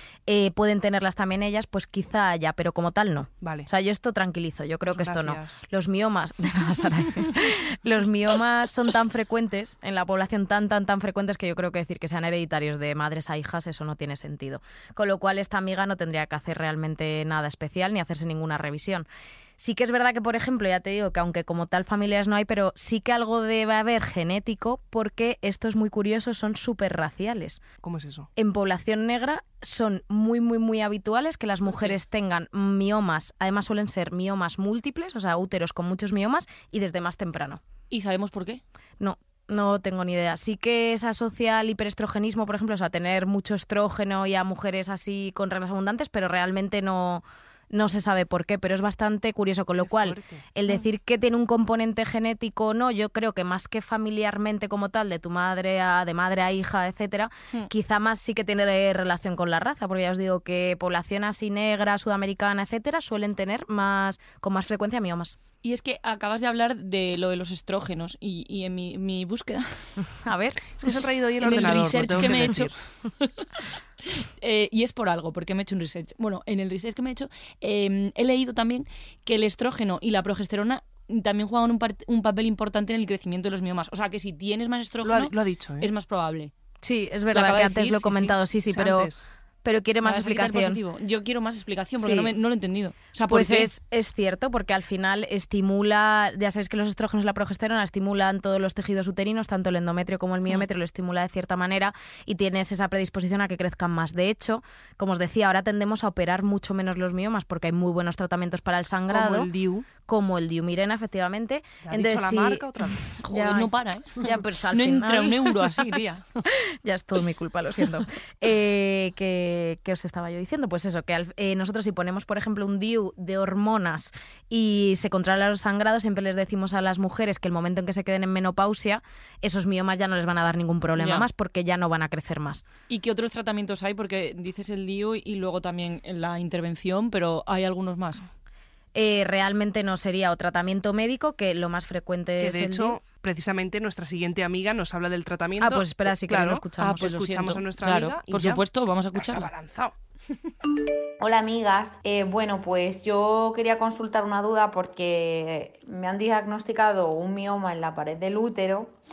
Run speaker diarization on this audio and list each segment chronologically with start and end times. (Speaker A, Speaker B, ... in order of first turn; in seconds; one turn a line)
Speaker A: 0.3-19.1
Speaker B: 3.4-3.7
Speaker B: 4.9-5.6
Speaker A: 19.6-27.6
Speaker B: 27.8-28.3
Speaker A: 28.4-37.6
Speaker C: 37.9-38.6
Speaker A: 39.0-65.4
Speaker B: 49.8-50.4
Speaker C: 65.6-69.8
Speaker A: 70.1-70.7
Speaker B: 70.8-72.7
Speaker C: 71.4-86.5
Speaker A: 72.1-72.6
Speaker B: 85.0-85.9
Speaker A: 86.8-89.1
Speaker C: 87.3-88.3
Speaker B: 88.7-89.3
Speaker A: 89.6-90.8
Speaker C: 90.0-93.7
Speaker A: 92.0-92.3
Speaker A: 93.3-109.5
Speaker B: 109.1-109.9
Speaker A: 110.0-132.6
Speaker B: 111.8-113.0
Speaker C: 113.2-116.4
Speaker C: 131.0-131.3
Speaker C: 132.9-138.2
Speaker A: 138.9-143.0
Speaker B: 142.4-148.6
Speaker A: 145.6-147.3
Speaker C: 146.8-149.5
Speaker B: 149.1-149.9
Speaker D: 151.2-159.0